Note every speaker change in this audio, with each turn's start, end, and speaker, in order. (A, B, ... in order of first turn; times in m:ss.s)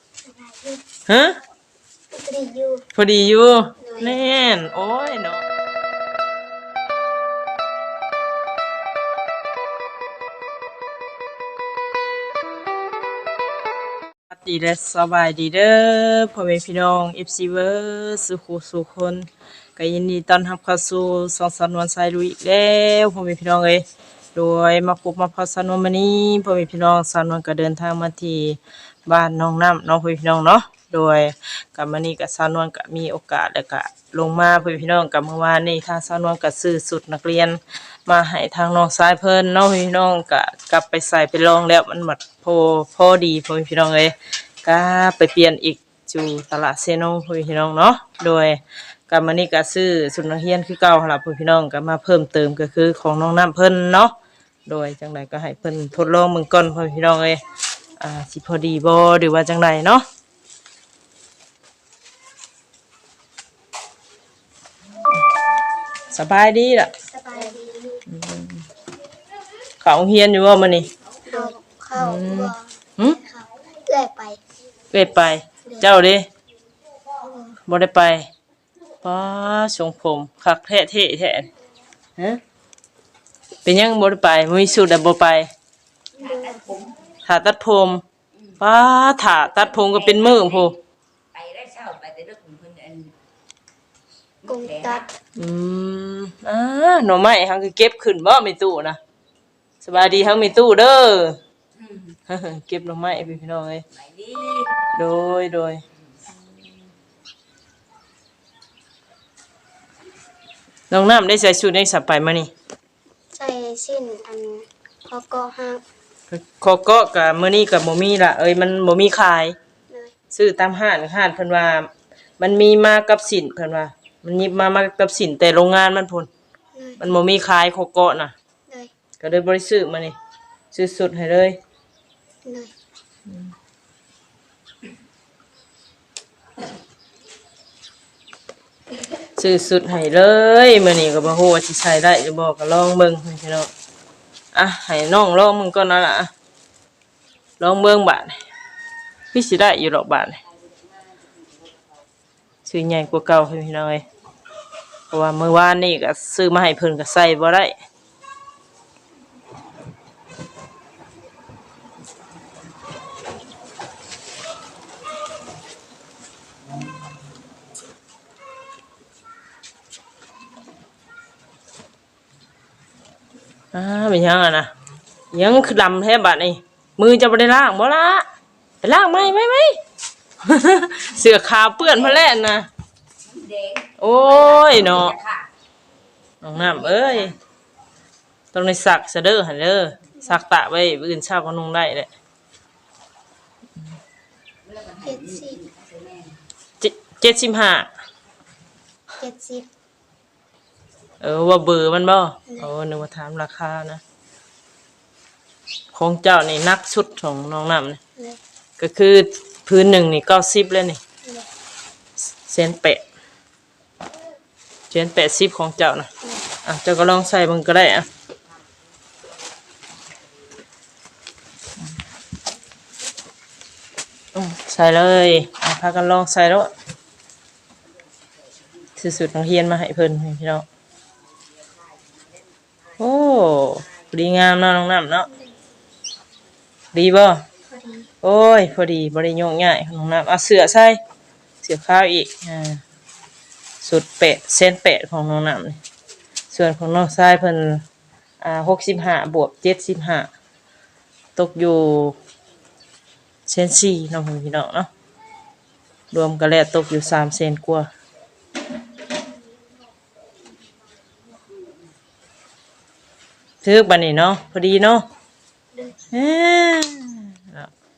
0:00.2-0:00.8 A
0:01.1-0:01.4 B
0:02.1-0:02.8 A
0:02.9-0:05.4 B
0:03.8-0:04.2 A
0:14.3-0:23.8 B
0:24.3-0:54.1 B
0:54.6-0:57.4 B
0:58.0-1:00.0 B
1:06.1-1:06.9 B
1:07.1-1:08.0 A
1:08.1-1:08.6 B
1:09.8-1:10.9 B
1:11.2-1:14.4 A
1:11.9-1:13.2 B
1:14.9-1:16.3 B
1:17.2-1:17.6 A
1:17.6-1:18.3 B
1:19.0-1:21.5 B
1:23.6-1:25.5 B
1:26.2-1:26.7 A
1:27.2-1:28.0 B
1:28.6-1:30.8 B
1:31.3-1:33.1 C
1:34.5-1:35.1 A
1:34.7-1:35.0 C
1:35.4-1:39.0 B
1:39.8-1:41.4 B
1:42.3-1:43.8 B
1:44.8-1:45.8 B
1:50.9-1:52.5 B
1:53.3-1:55.8 A
1:56.3-1:59.6 B
1:59.9-2:00.1 A
2:00.3-2:06.3 B
2:06.7-2:07.0 A
2:07.0-2:08.3 B
2:09.2-2:10.2 B
2:10.7-2:11.6 B
2:12.4-2:12.7 A
2:13.3-2:13.5 B
2:19.4-2:23.7 B
2:24.5-2:26.3 B
2:27.6-2:28.4 B
2:29.3-2:30.4 B
2:32.6-2:34.0 B
2:35.1-2:37.7 B
2:53.7-2:54.7 B
2:55.3-2:58.2 B
2:58.8-2:59.8 B
3:00.4-3:02.7 B
3:04.0-3:05.2 B
3:06.4-3:07.4 B
3:08.5-3:12.1 B
3:14.9-3:15.7 A
3:16.8-3:17.9 B
3:19.2-3:19.7 A
3:21.2-3:24.0 B
3:25.9-3:28.0 B
3:28.8-3:31.0 B
3:31.2-3:31.5 A
3:32.4-3:33.0 B
3:34.9-3:38.1 B
3:44.3-3:46.7 B
3:49.0-3:50.6 B
3:53.0-3:55.3 B
3:56.9-3:57.4 B
3:57.7-3:58.1 A
3:58.2-4:01.0 B
4:01.6-4:02.8 B
4:03.8-4:05.8 B
4:06.5-4:07.8 B
4:08.4-4:10.3 B
4:11.4-4:12.2 B
4:13.5-4:14.9 B
4:16.1-4:17.9 B
4:23.6-4:25.1 B
4:26.1-4:27.7 B